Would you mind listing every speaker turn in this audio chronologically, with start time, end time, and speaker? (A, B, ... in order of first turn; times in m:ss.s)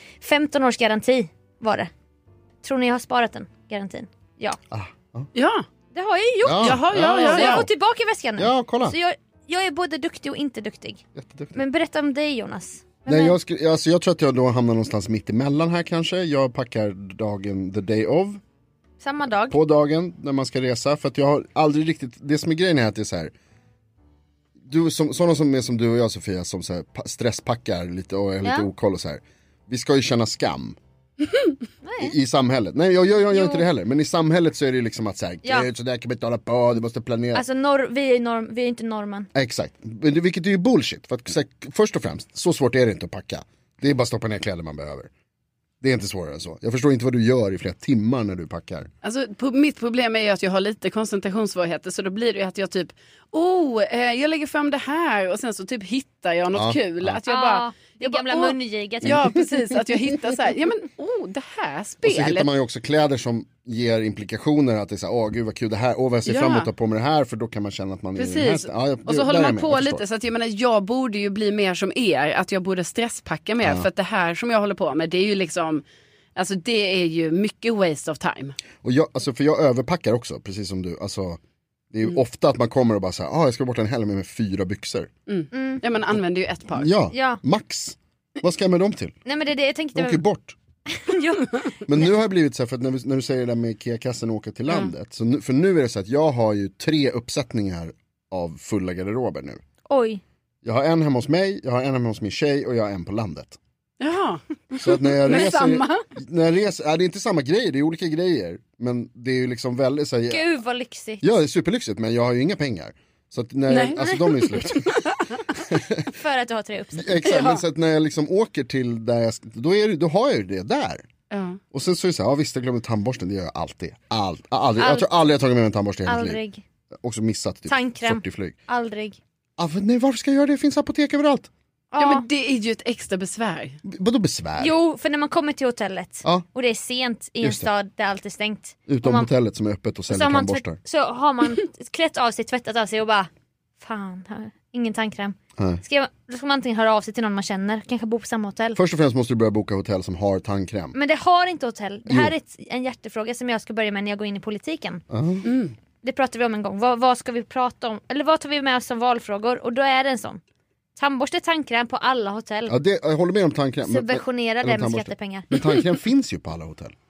0:00.2-0:01.9 A
0:02.6-0:04.6 A
0:04.7-0:05.3 B
0:05.3-0:05.6 C
0:05.9-0:11.0 A
0:06.4-0:07.7 B
0:06.6-0:07.6 C
0:08.4-0:09.0 B
0:11.2-0:11.6 B
0:11.5-0:13.4 A
0:13.0-0:18.4 B
0:19.0-0:19.6 A
0:19.5-0:23.3 B
0:24.6-0:30.8 B
0:31.8-0:32.2 A
0:32.0-0:37.4 B
0:33.3-0:33.6 A
0:37.3-0:39.3 A
0:39.3-0:45.1 B
0:45.8-0:48.9 B
0:49.0-1:02.5 C
0:56.5-0:57.2 B
0:57.3-0:59.3 A
0:59.0-0:59.3 B
1:02.0-1:10.0 B
1:06.2-1:06.7 C
1:08.2-1:15.8 C
1:13.6-1:13.9 B
1:16.4-1:18.6 C
1:18.8-1:21.4 B
1:21.9-1:25.1 B
1:25.3-1:26.9 C
1:25.5-1:25.8 A
1:26.7-1:29.2 B
1:27.1-1:27.4 A
1:29.2-1:30.2 A
1:29.9-1:30.6 B
1:30.9-1:31.8 A
1:31.9-1:39.6 B
1:39.9-1:40.2 A
1:40.6-1:43.6 B
1:44.0-1:46.0 C
1:44.8-1:50.5 B
1:50.3-1:51.3 A
1:51.2-1:55.0 B
1:53.7-1:55.2 C
1:55.5-1:56.1 B
1:56.1-1:57.2 A
1:56.9-2:01.1 B
1:57.2-1:57.6 C
2:01.3-2:01.6 C
2:01.7-2:06.4 B
2:04.8-2:05.1 A
2:06.0-2:06.6 A
2:07.0-2:08.6 B
2:07.7-2:09.2 A
2:09.6-2:11.5 B
2:11.9-2:12.2 A
2:12.0-2:13.8 C
2:13.8-2:14.7 B
2:14.6-2:19.3 A
2:17.4-2:17.7 B
2:18.9-2:20.8 B
2:20.1-2:23.3 A
2:23.8-2:28.8 A
2:25.6-2:25.8 B
2:28.8-2:30.9 B
2:30.9-2:35.0 A
2:32.1-2:32.3 B
2:35.1-2:35.5 B
2:35.4-2:35.7 C
2:36.0-2:40.4 A
2:41.0-2:42.7 A
2:42.7-2:46.9 B
2:43.9-2:45.6 A